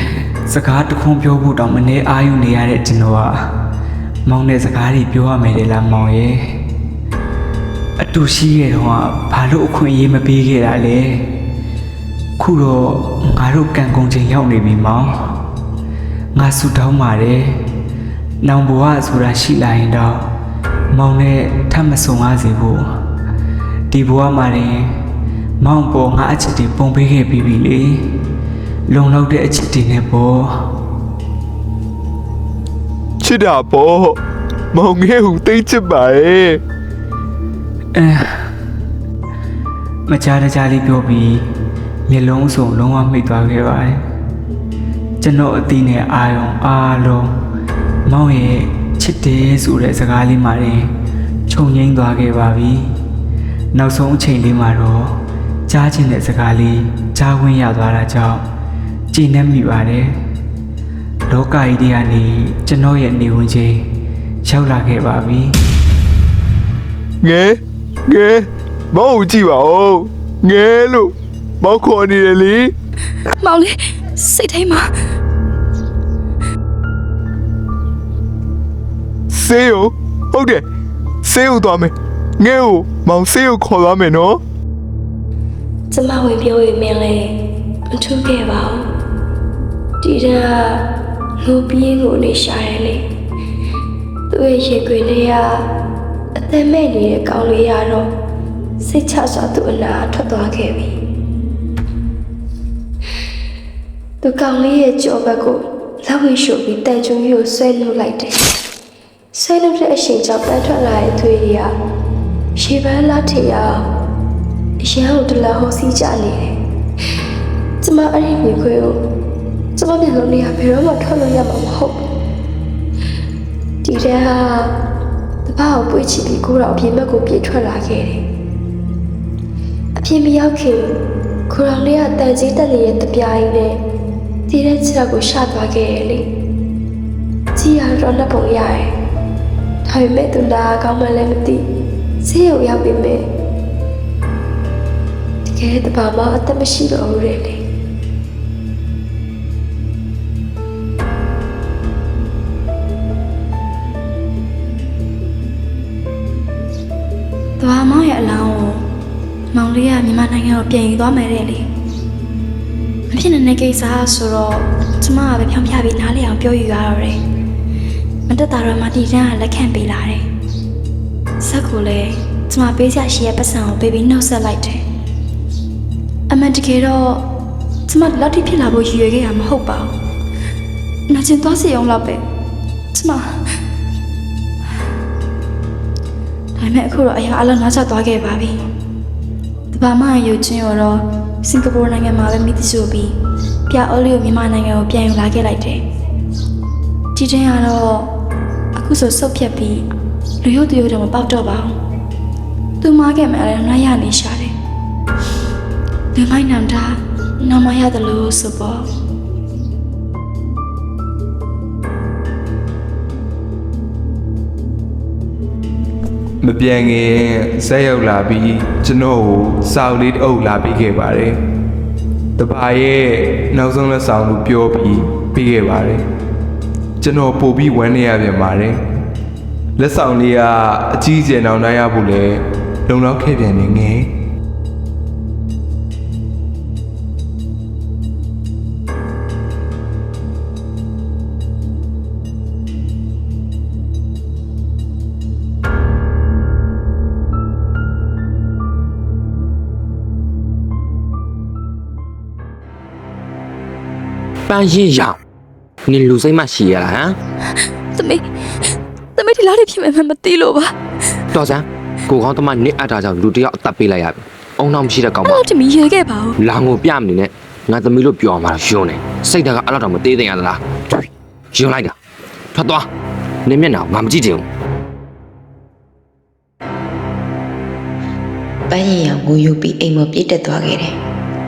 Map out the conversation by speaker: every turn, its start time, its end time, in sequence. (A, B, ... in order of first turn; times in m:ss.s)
0:00.4-0:03.4 A
0:04.2-0:06.6 A
0:08.0-0:11.3 A
0:12.4-0:15.2 A
0:16.4-0:17.6 A
0:18.4-0:20.3 A
0:20.9-0:22.8 A
0:23.9-0:24.9 A
0:25.6-0:28.0 A
0:28.9-0:30.7 A
0:33.2-0:34.2 B
0:34.7-0:36.6 B
0:37.9-0:38.5 A
0:40.1-0:41.4 A
0:42.1-0:44.0 A
0:45.2-0:47.3 A
0:48.0-0:50.9 A
0:51.5-0:52.9 A
0:53.7-0:58.4 A
0:59.1-1:00.2 A
1:01.3-1:03.8 A
1:04.4-1:05.6 A
1:07.2-1:12.7 B
1:13.4-1:14.9 C
1:19.3-1:20.6 B
1:21.2-1:24.4 B
1:25.9-1:27.4 D
1:27.9-1:28.8 D
1:30.0-1:30.8 D
1:31.4-1:33.1 D
1:34.3-1:35.6 D
1:36.4-1:38.1 D
1:38.8-1:40.9 D
1:44.2-1:48.4 D
1:49.3-1:51.7 D
1:52.6-1:53.8 D
1:54.8-1:56.6 D
1:57.8-1:59.0 D
1:59.8-2:02.0 D
2:03.8-2:04.7 D
2:05.4-2:08.2 D
2:10.0-2:10.9 D
2:11.5-2:13.8 D
2:14.5-2:16.2 D
2:17.6-2:18.9 D
2:19.8-2:21.6 D
2:22.2-2:23.2 D
2:25.4-2:27.6 D
2:37.6-2:38.9 C
2:39.5-2:41.7 C
2:43.1-2:47.2 C
2:48.3-2:50.3 C
2:51.4-2:54.8 C
2:56.3-2:57.2 C
2:57.9-2:59.9 C
3:01.1-3:02.2 C
3:02.9-3:03.6 C
3:06.6-3:08.6 C
3:09.7-3:13.2 C
3:13.7-3:15.8 C
3:17.1-3:18.1 C
3:18.7-3:19.9 C
3:20.4-3:21.8 C
3:22.8-3:24.5 C
3:26.1-3:28.9 C
3:36.4-3:41.4 B
3:42.4-3:46.0 B
3:47.0-3:48.8 B
3:49.8-3:54.1 B
4:14.5-4:15.2 E
4:15.9-4:17.2 E
4:17.5-4:20.7 C
4:21.3-4:25.4 E
4:25.2-4:26.4 C
4:26.4-4:30.6 E
4:31.5-4:31.9 E
4:32.5-4:32.9 E
4:33.4-4:34.4 E
4:38.7-4:40.9 F